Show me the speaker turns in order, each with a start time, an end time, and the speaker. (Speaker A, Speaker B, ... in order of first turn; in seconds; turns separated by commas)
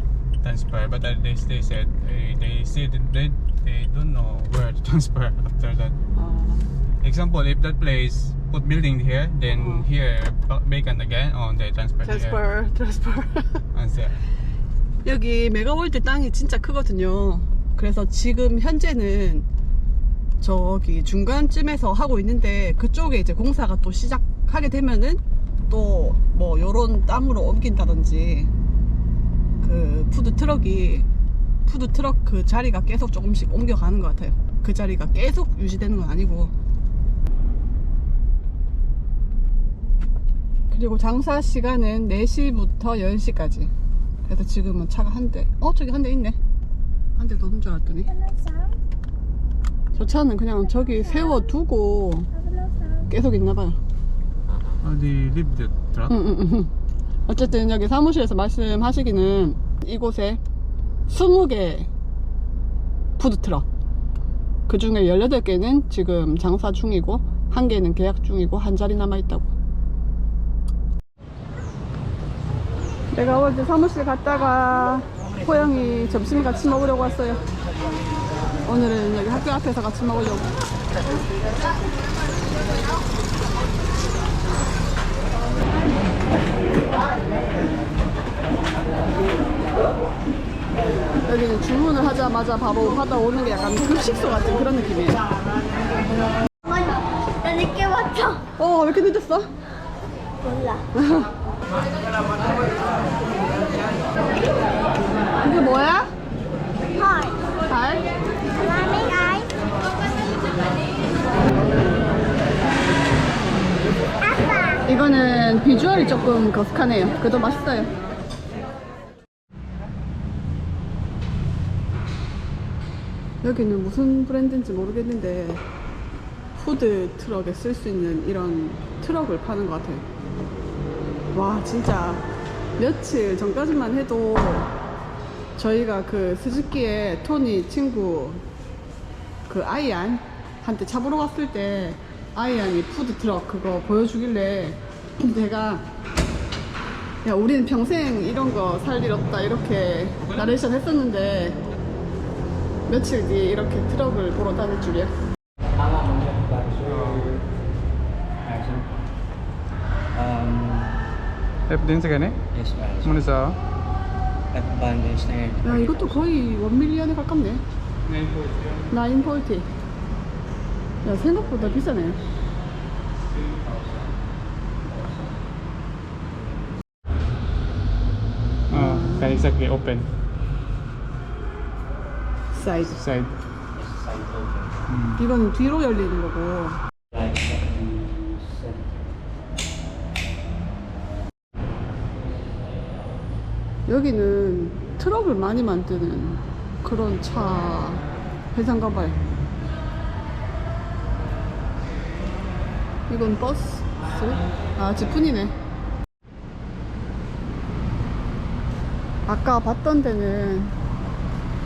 Speaker A: 0.4-6.0, Speaker B: 6.1-6.6, Speaker A: 7.0-12.4, Speaker B: 9.5-9.9, Speaker B: 12.0-13.6, Speaker A: 13.7-14.2, Speaker B: 15.0-19.4, Speaker B: 20.4-28.5, Speaker B: 29.6-31.1, Speaker B: 31.6-36.5, Speaker B: 40.7-43.7, Speaker B: 44.2-46.4, Speaker B: 47.1-48.1, Speaker C: 48.2-48.7, Speaker B: 49.9-52.3, Speaker C: 52.5-53.0, Speaker B: 53.1-53.8, Speaker A: 54.8-56.1, Speaker B: 56.1-56.7, Speaker B: 57.3-60.4, Speaker B: 61.1-61.9, Speaker B: 63.2-63.6, Speaker B: 64.7-69.5, Speaker B: 73.1-77.4, Speaker B: 78.6-80.5, Speaker B: 91.2-95.2, Speaker C: 96.6-98.4, Speaker B: 98.6-99.5, Speaker C: 100.4-100.8, Speaker B: 100.9-101.3, Speaker B: 105.4-106.1, Speaker C: 106.9-107.4, Speaker B: 107.7-108.1, Speaker C: 108.5-109.5, Speaker C: 114.5-114.8, Speaker B: 114.8-117.9, Speaker B: 123.4-125.6, Speaker B: 126.5-130.0, Speaker B: 131.3-132.2, Speaker B: 132.8-134.7, Speaker B: 135.6-138.4, Speaker B: 139.5-145.8, Speaker B: 147.2-151.6, Speaker B: 152.9-155.1, Speaker D: 155.8-157.4, Speaker A: 156.8-157.4, Speaker D: 158.5-158.9, Speaker D: 160.1-161.1, Speaker A: 161.7-162.4, Speaker D: 162.5-163.2, Speaker A: 163.0-163.6, Speaker D: 164.5-166.2, Speaker B: 165.6-167.6, Speaker A: 168.0-168.9, Speaker B: 168.9-169.7, Speaker B: 171.0-172.2, Speaker A: 173.4-173.9, Speaker A: 178.7-180.1, Speaker B: 182.5-183.1, Speaker A: 182.9-183.4, Speaker D: 183.7-184.8, Speaker A: 184.9-185.2, Speaker B: 185.2-186.8, Speaker D: 187.1-188.9, Speaker B: 193.8-199.2, Speaker B: 203.1-205.5, Speaker B: 209.2-210.8